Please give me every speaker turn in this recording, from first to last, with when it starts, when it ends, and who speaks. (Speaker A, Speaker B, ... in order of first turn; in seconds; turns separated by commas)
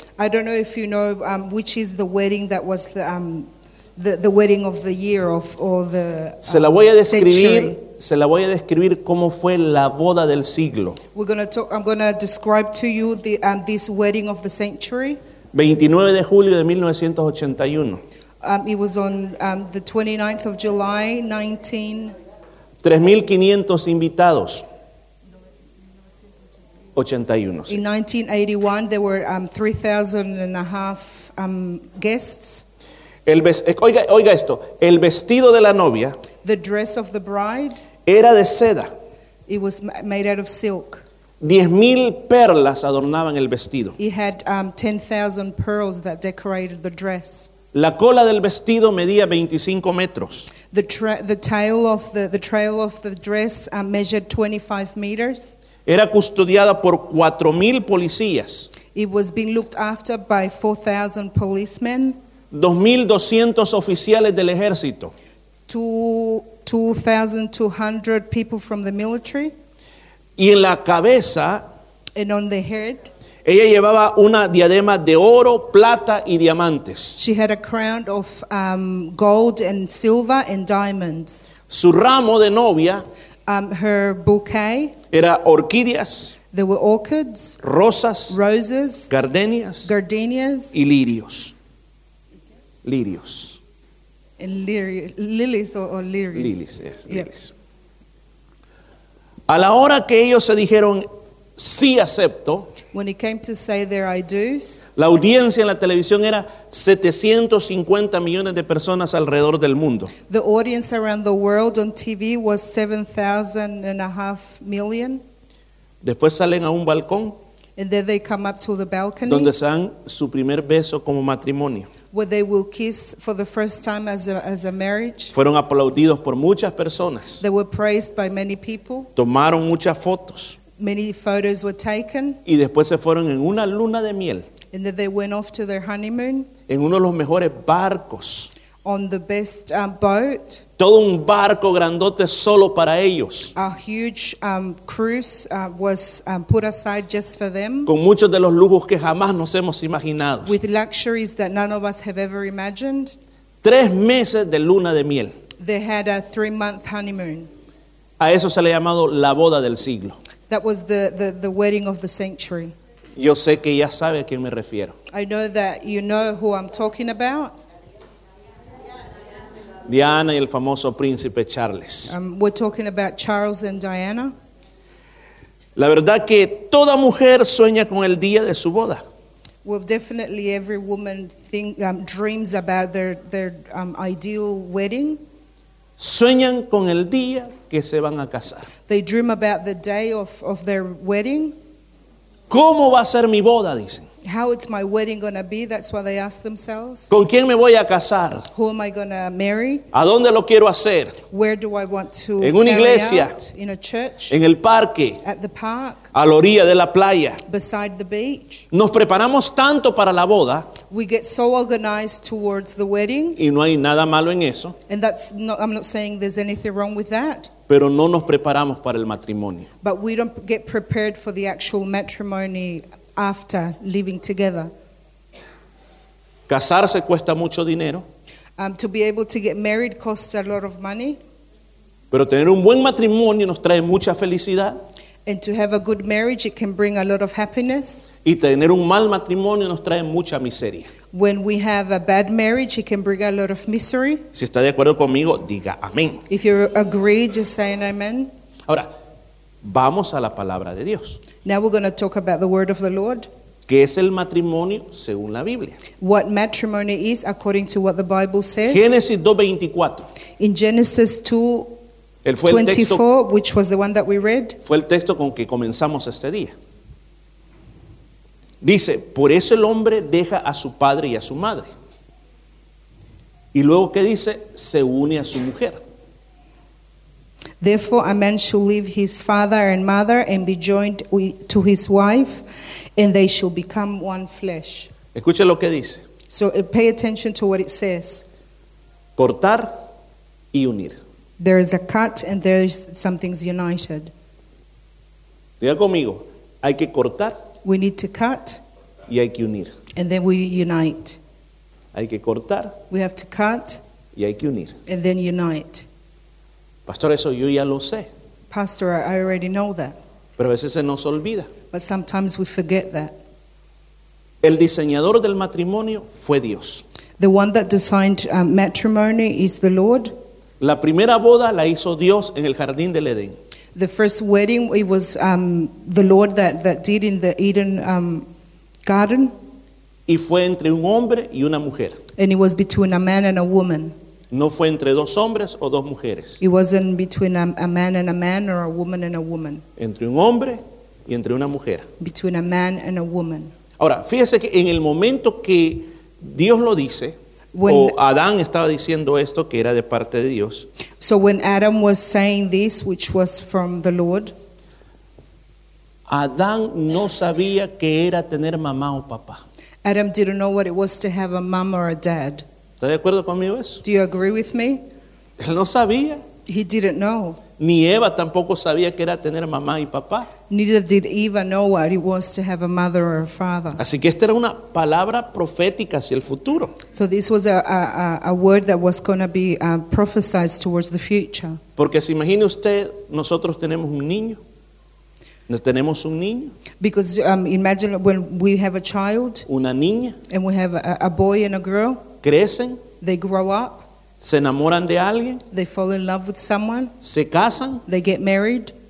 Speaker A: 0.2-7.8, Speaker B: 6.5-11.0, Speaker A: 11.1-15.2, Speaker B: 15.5-18.0, Speaker A: 18.4-22.1, Speaker B: 22.8-24.6, Speaker B: 26.9-27.8, Speaker A: 27.7-32.6, Speaker B: 33.2-36.2, Speaker A: 36.4-37.8, Speaker B: 38.0-38.9, Speaker A: 39.5-41.0, Speaker B: 41.4-44.0, Speaker A: 44.0-47.5, Speaker B: 47.7-50.5, Speaker A: 50.7-55.5, Speaker B: 55.9-58.7, Speaker A: 58.9-62.1, Speaker B: 62.5-65.1, Speaker A: 65.7-69.5, Speaker B: 70.4-71.6, Speaker A: 72.1-73.1, Speaker B: 73.4-77.2, Speaker A: 77.2-81.5, Speaker B: 81.7-83.0, Speaker A: 83.5-85.0, Speaker B: 85.1-86.3, Speaker A: 86.5-87.6, Speaker B: 87.6-88.4, Speaker A: 88.3-89.1, Speaker B: 89.1-89.9, Speaker A: 89.8-90.7, Speaker B: 90.7-91.5, Speaker B: 92.8-93.6, Speaker A: 94.4-96.6, Speaker B: 96.3-97.5, Speaker B: 99.5-101.0, Speaker B: 101.6-102.7, Speaker A: 102.9-104.8, Speaker B: 105.0-110.1, Speaker A: 110.3-115.2, Speaker B: 116.0-117.3, Speaker A: 117.8-119.5, Speaker B: 119.2-121.9, Speaker A: 122.1-125.3, Speaker B: 125.3-127.4, Speaker A: 127.4-129.1, Speaker B: 129.2-130.6, Speaker A: 130.8-132.4, Speaker B: 132.4-134.5, Speaker A: 134.7-136.5, Speaker B: 136.7-138.5, Speaker A: 138.8-140.6, Speaker B: 140.8-143.5, Speaker A: 143.6-147.9, Speaker B: 147.8-150.6, Speaker A: 150.4-153.2, Speaker B: 153.6-155.3, Speaker A: 155.6-157.5, Speaker B: 158.2-160.2, Speaker A: 160.5-162.7, Speaker B: 163.2-164.9, Speaker A: 165.1-167.5, Speaker B: 169.8-172.1, Speaker A: 172.1-174.3, Speaker B: 175.8-179.0, Speaker A: 179.6-185.2, Speaker B: 186.0-188.7, Speaker A: 188.9-191.5, Speaker B: 192.5-194.1, Speaker A: 194.2-197.1, Speaker B: 197.1-198.5, Speaker A: 198.5-199.8, Speaker B: 199.9-201.2, Speaker A: 201.3-204.3, Speaker B: 202.4-203.3, Speaker B: 204.3-205.2, Speaker A: 205.2-206.1, Speaker B: 206.1-207.4, Speaker A: 207.4-208.7, Speaker B: 208.7-210.7, Speaker A: 210.8-213.4, Speaker B: 213.4-214.8, Speaker A: 214.9-217.5, Speaker B: 217.7-219.7, Speaker A: 219.8-224.7, Speaker B: 226.5-228.0, Speaker A: 228.6-231.2, Speaker B: 232.1-234.8, Speaker A: 235.2-238.1, Speaker B: 238.2-240.9, Speaker A: 241.1-244.2, Speaker B: 244.3-246.2, Speaker A: 246.3-248.3, Speaker B: 249.6-251.2, Speaker A: 251.4-253.3, Speaker B: 253.7-255.8, Speaker A: 256.0-259.0, Speaker B: 258.7-260.1, Speaker A: 260.4-261.8, Speaker B: 262.2-263.0, Speaker A: 262.4-264.6, Speaker B: 264.6-266.5, Speaker B: 268.6-271.7, Speaker B: 273.5-275.8, Speaker A: 277.6-284.9, Speaker B: 285.1-286.0, Speaker A: 286.3-288.2, Speaker B: 289.2-289.8, Speaker B: 290.5-291.0, Speaker A: 291.4-294.1, Speaker B: 295.6-297.4, Speaker A: 297.6-298.6, Speaker B: 299.1-299.7, Speaker A: 299.9-301.2, Speaker B: 301.9-302.8, Speaker A: 302.9-303.8, Speaker B: 304.1-304.8, Speaker A: 304.9-305.9, Speaker B: 306.9-308.1, Speaker A: 308.5-310.0, Speaker B: 310.4-311.5, Speaker A: 311.7-313.1, Speaker B: 314.4-316.8, Speaker A: 317.2-320.1, Speaker B: 320.6-323.4, Speaker A: 323.7-328.3, Speaker A: 328.8-329.3, Speaker B: 330.1-332.0, Speaker A: 332.2-333.9, Speaker B: 334.3-336.4, Speaker A: 336.4-339.6, Speaker B: 339.8-341.9, Speaker A: 342.0-343.5, Speaker B: 343.8-347.1, Speaker A: 347.5-347.9, Speaker B: 347.6-350.7, Speaker A: 351.0-354.3, Speaker B: 356.1-359.4, Speaker A: 359.8-362.4, Speaker B: 362.8-363.8, Speaker A: 363.8-364.8, Speaker B: 365.4-366.2, Speaker A: 366.5-367.4, Speaker B: 367.6-370.3, Speaker A: 370.5-373.8, Speaker B: 373.8-376.7, Speaker A: 376.9-381.6, Speaker B: 381.8-384.4, Speaker B: 385.5-386.5, Speaker A: 386.8-389.4, Speaker B: 389.5-390.2, Speaker A: 390.3-392.0, Speaker B: 392.2-392.8, Speaker A: 393.0-393.9, Speaker B: 394.2-395.4, Speaker A: 395.5-396.9, Speaker B: 397.0-397.8, Speaker A: 397.9-398.7